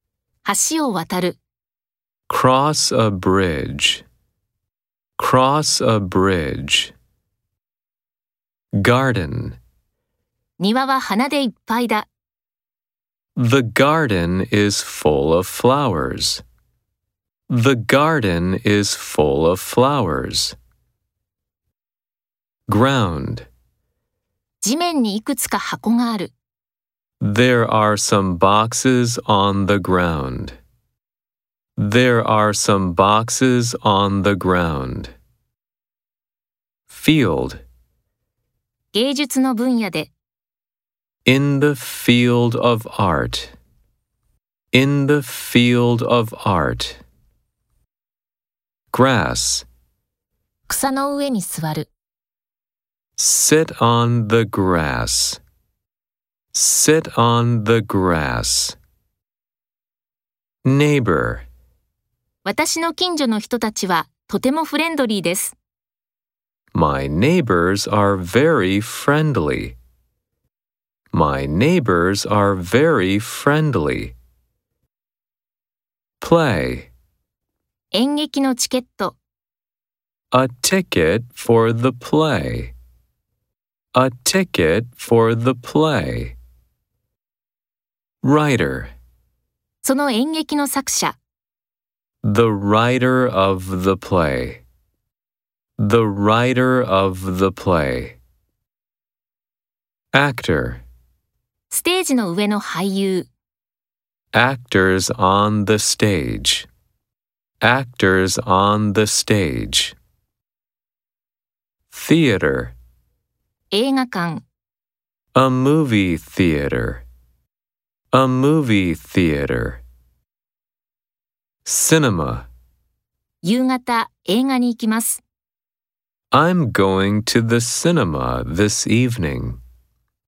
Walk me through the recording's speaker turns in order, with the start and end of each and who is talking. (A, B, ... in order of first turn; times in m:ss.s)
0:00.4-0:01.4 A
0:02.3-0:04.0 B
0:05.2-0:06.9 B
0:08.8-0:09.6 B
0:10.6-0:12.1 A
0:13.4-0:16.4 B
0:17.5-0:20.6 B
0:22.7-0:23.5 B
0:24.6-0:26.3 A
0:27.2-0:30.6 B
0:31.8-0:35.1 B
0:36.9-0:37.6 B
0:38.9-0:40.1 A
0:41.2-0:43.5 B
0:44.7-0:47.0 B
0:48.9-0:49.6 B
0:50.7-0:51.9 A
0:53.2-0:55.4 B
0:56.5-0:58.8 B
1:00.6-1:01.4 B
1:02.4-1:05.5 A
1:06.7-1:09.8 B
1:11.1-1:14.2 B
1:16.2-1:16.9 B
1:17.9-1:19.2 A
1:20.3-1:22.7 B
1:23.9-1:26.4 B
1:28.2-1:28.9 B
1:29.8-1:31.2 A
1:32.2-1:34.6 B
1:35.8-1:38.2 B
1:40.1-1:40.8 B
1:41.7-1:43.3 A
1:44.3-1:46.7 B
1:47.6-1:49.9 B
1:51.9-1:52.7 B
1:53.7-1:54.4 A
1:55.3-1:57.0 B
1:58.1-1:59.8 B
2:01.6-2:02.5 B
2:03.4-2:05.2 A
2:06.3-2:09.6 B